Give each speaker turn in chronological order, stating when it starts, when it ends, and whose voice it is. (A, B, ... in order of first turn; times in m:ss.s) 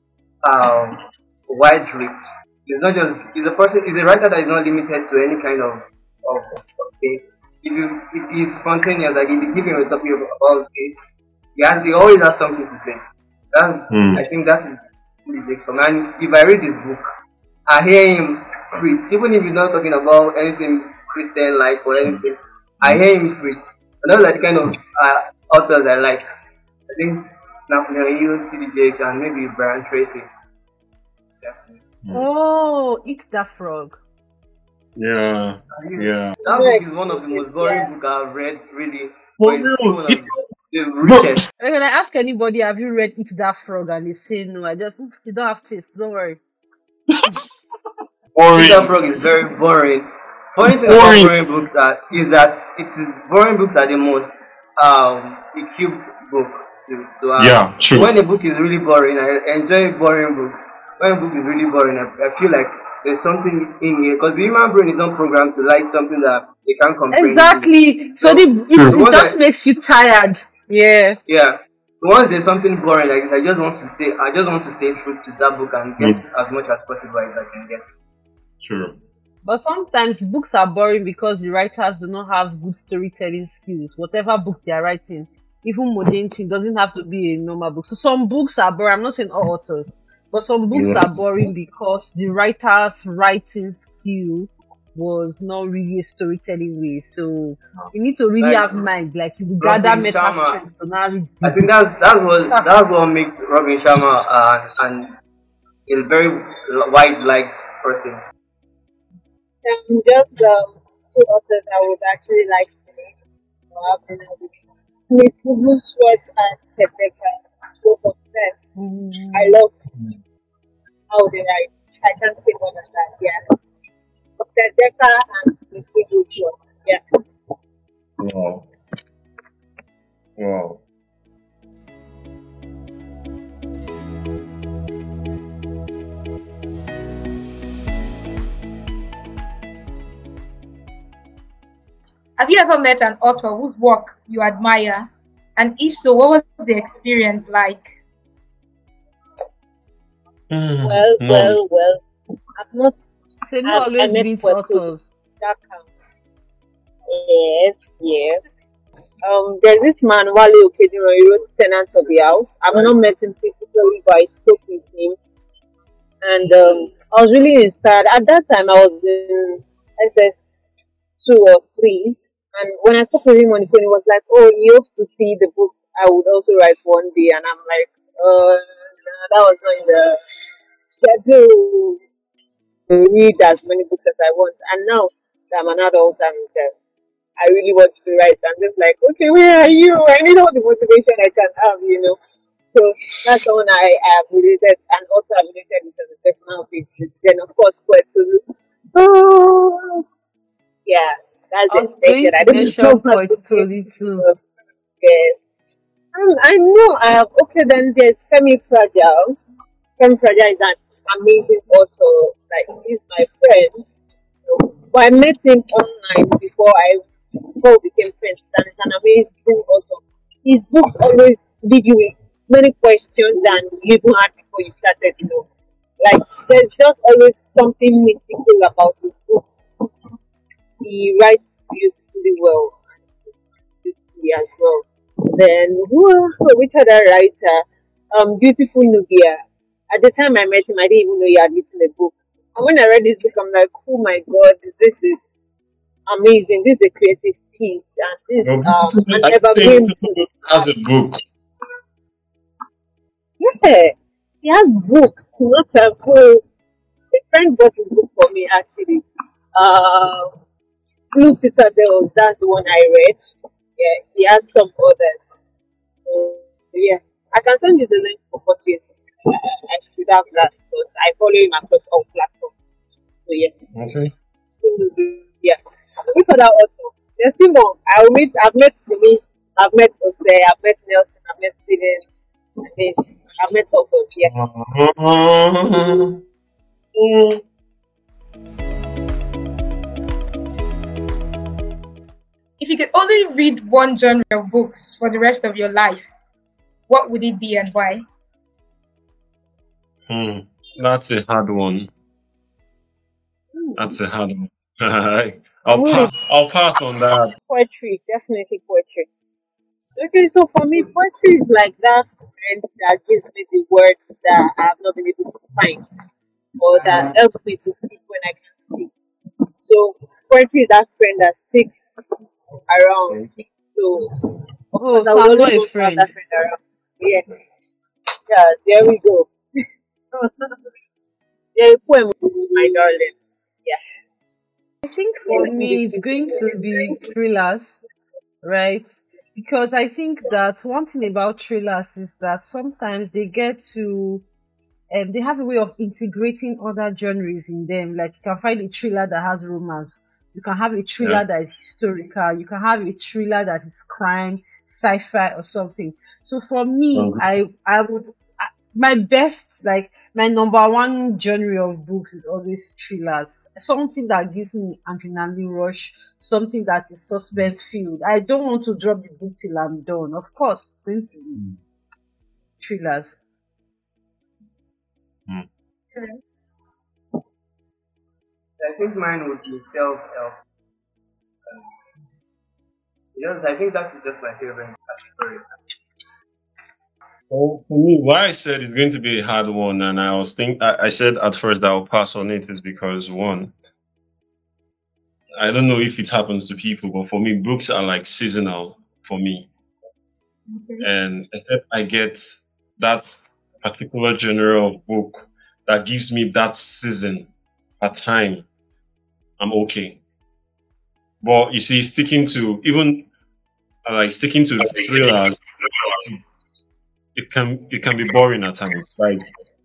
0:00.4-0:11.0 A
0:11.6-0:13.0 A
0:13.5-0:17.1 A
0:13.9-0:14.2 B
0:17.7-0:26.2 A
0:26.9-0:30.3 A
0:31.4-0:31.8 A
0:32.1-0:34.0 C
0:35.0-0:36.4 B
0:35.8-0:41.4 A
0:36.4-0:37.9 D
0:39.4-0:40.4 B
0:41.1-0:41.5 B
0:41.6-0:46.4 C
0:47.1-0:47.4 B
0:48.3-0:48.9 B
0:48.5-1:09.4 A
0:50.7-0:51.3 B
0:57.4-0:58.1 B
1:07.1-1:11.2 C
1:08.7-1:09.0 B
1:11.3-1:17.8 A
1:18.6-1:19.0 B
1:19.4-1:41.7 C
1:30.7-1:31.1 B
1:38.4-1:38.8 A
1:39.6-1:40.6 A
1:41.4-1:45.1 A
1:45.9-1:48.2 A
1:49.6-1:58.6 D
1:58.8-1:59.6 C
1:59.3-1:59.7 D
2:01.1-2:03.4 D
2:04.4-2:07.0 D
2:08.2-2:08.7 B
2:10.4-2:10.8 B
2:22.4-2:28.0 E
2:30.5-2:31.6 B
2:30.8-2:32.0 D
2:32.6-2:33.0 D
2:33.4-2:35.1 C
2:33.6-2:35.9 D
2:37.1-2:45.2 D
2:46.2-3:02.0 D
3:02.9-3:06.7 D
3:07.4-3:12.2 D
3:12.7-3:20.0 D
3:20.8-3:24.4 D
3:21.7-3:24.3 C
3:25.0-3:25.4 D
3:26.1-3:29.4 D
3:30.0-3:33.9 D
3:34.4-3:37.0 D
3:37.6-3:45.5 D
3:46.0-3:49.8 D
3:50.8-3:52.8 D
3:53.3-4:05.4 D
4:06.1-4:10.7 D
4:08.4-4:11.2 B
4:13.4-4:16.4 D
4:17.1-4:19.0 D
4:19.5-4:20.3 D
4:21.1-4:25.4 D
4:26.0-4:32.5 D
4:33.2-4:33.5 D
4:33.7-4:34.2 B
4:34.5-4:35.6 D
4:36.1-4:42.0 D
4:42.6-4:44.3 D
4:44.2-4:46.2 B
4:46.9-4:47.4 B
4:52.6-4:56.1 E
4:56.9-4:58.0 E
5:00.1-5:01.9 B
5:03.8-5:07.3 B
5:05.7-5:06.1 D
5:07.5-5:09.1 D
5:10.0-5:15.9 D
5:16.6-5:18.9 D
5:19.6-5:22.2 D
5:22.7-5:24.1 D
5:24.8-5:26.1 C
5:24.8-5:27.3 D
5:28.2-5:29.3 D
5:30.2-5:30.5 D
5:31.5-5:33.8 D
5:34.8-5:37.8 C
5:35.2-5:37.1 D
5:38.4-5:44.2 C
5:44.9-6:11.4 C
5:56.9-5:57.2 B
6:12.6-6:13.2 C
6:18.6-6:20.4 A
6:21.4-6:21.9 A
6:23.1-6:25.4 A
6:27.3-6:33.5 B
6:35.4-6:39.5 B
6:40.5-6:40.8 E
6:40.8-6:47.3 B
6:47.8-6:48.4 B
6:49.4-6:50.0 B
6:51.2-6:53.1 B
6:53.8-6:56.2 B
6:57.1-6:59.2 B